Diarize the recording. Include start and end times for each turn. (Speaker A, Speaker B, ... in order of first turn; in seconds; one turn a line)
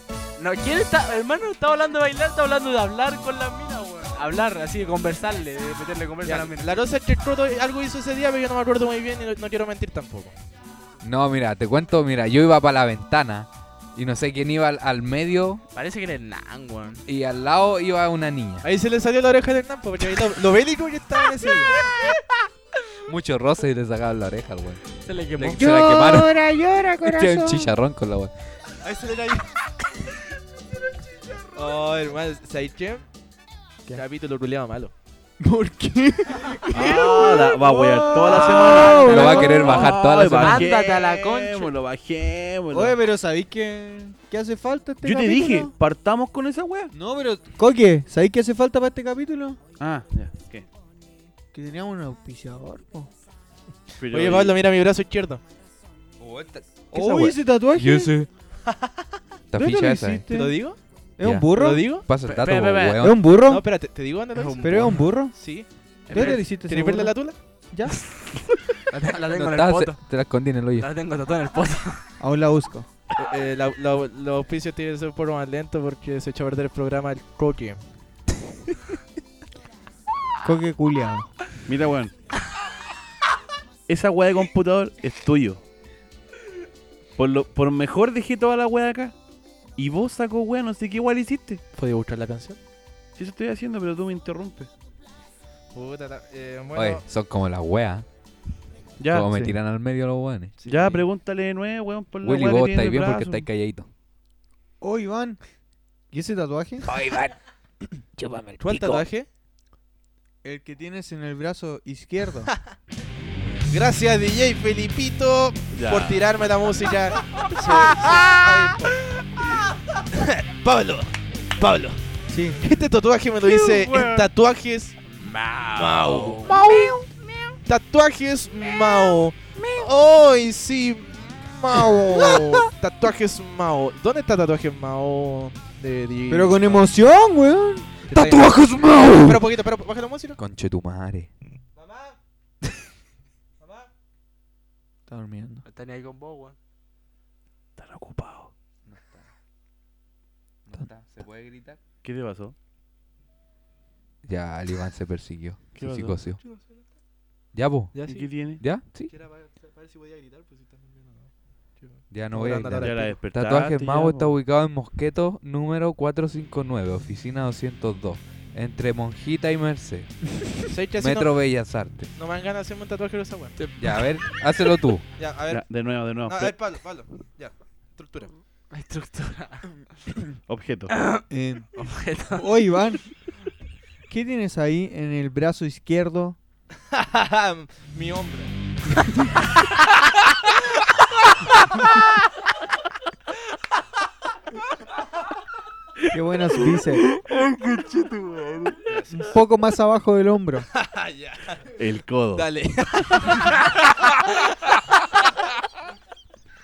Speaker A: 0.4-6.8
Speaker B: 6.2-10.3
Speaker C: 11.0-15.6
Speaker A: 15.7-17.0
Speaker C: 17.1-18.6
Speaker B: 18.6-21.8
Speaker C: 23.1-24.8
Speaker A: 25.0-25.7
Speaker C: 25.4-26.4
Speaker D: 25.5-27.7
Speaker C: 27.0-28.3
Speaker B: 28.8-29.4
Speaker B: 31.5-33.0
Speaker B: 33.9-34.9
Speaker D: 35.4-39.9
Speaker E: 36.7-43.0
Speaker A: 38.3-41.7
Speaker C: 39.0-40.7
Speaker D: 42.7-45.7
Speaker E: 45.0-46.9
Speaker D: 46.9-49.6
Speaker E: 49.8-50.6
Speaker D: 51.5-53.1
Speaker E: 54.0-54.5
Speaker B: 54.0-55.4
Speaker C: 56.2-58.3
Speaker D: 56.9-58.1
Speaker C: 59.5-60.3
Speaker D: 59.5-60.5
Speaker B: 60.3-60.8
Speaker D: 61.2-61.8
Speaker C: 61.2-63.2
Speaker B: 61.5-62.0
Speaker A: 62.2-63.0
Speaker D: 63.0-63.7
Speaker B: 63.5-67.3
Speaker A: 64.3-65.1
Speaker D: 64.6-65.3
Speaker D: 66.1-67.2
Speaker A: 66.1-66.4
Speaker D: 67.7-68.0
Speaker A: 68.9-70.0
Speaker C: 69.3-70.9
Speaker A: 70.8-72.0
Speaker D: 72.2-72.9
Speaker B: 73.2-77.8
Speaker D: 80.4-81.3
Speaker E: 81.7-82.1
Speaker E: 83.9-85.6
Speaker E: 87.2-89.1
Speaker E: 89.8-91.6
Speaker B: 91.7-92.6
Speaker E: 93.2-94.7
Speaker B: 95.7-97.0
Speaker C: 96.7-98.0
Speaker E: 99.0-99.3
Speaker C: 99.1-100.6
Speaker D: 99.2-99.5
Speaker B: 100.6-101.0
Speaker E: 100.7-103.5
Speaker C: 102.2-103.9
Speaker D: 104.8-105.4
Speaker D: 106.1-106.9
Speaker C: 106.9-107.3
Speaker B: 108.6-109.3
Speaker D: 110.4-112.5
Speaker B: 113.7-119.0
Speaker E: 115.7-116.2
Speaker B: 120.1-122.0
Speaker D: 122.3-122.6
Speaker B: 122.6-125.0
Speaker A: 123.5-124.3
Speaker A: 125.2-127.5
Speaker B: 125.8-126.9
Speaker B: 127.7-136.9
Speaker D: 131.6-132.7
Speaker D: 136.3-138.7
Speaker B: 138.1-138.6
Speaker C: 138.1-139.4
Speaker B: 139.2-140.4
Speaker C: 140.4-141.3
Speaker B: 141.8-142.1
Speaker B: 143.6-143.9
Speaker D: 145.1-145.6
Speaker A: 145.6-146.6
Speaker E: 147.8-148.5
Speaker C: 148.9-149.3
Speaker C: 150.7-151.8
Speaker E: 152.0-152.5
Speaker C: 154.2-156.4
Speaker E: 155.8-156.2
Speaker C: 157.5-159.1
Speaker B: 157.9-158.3
Speaker E: 158.1-158.6
Speaker B: 158.9-161.3
Speaker B: 161.8-163.2
Speaker C: 162.1-170.1
Speaker E: 162.8-164.3
Speaker B: 170.7-171.3
Speaker C: 171.0-172.1
Speaker B: 172.1-173.5
Speaker A: 173.6-174.1
Speaker C: 173.8-175.0
Speaker B: 175.2-178.3
Speaker E: 175.5-176.6
Speaker A: 178.7-179.8
Speaker E: 180.5-180.9
Speaker A: 180.9-182.5
Speaker D: 181.3-181.7
Speaker D: 182.3-183.0
Speaker D: 184.1-186.4
Speaker B: 186.9-188.5
Speaker D: 196.1-197.1
Speaker B: 198.9-199.2
Speaker D: 199.1-200.7
Speaker B: 200.7-201.6
Speaker E: 201.8-202.5
Speaker B: 202.3-203.5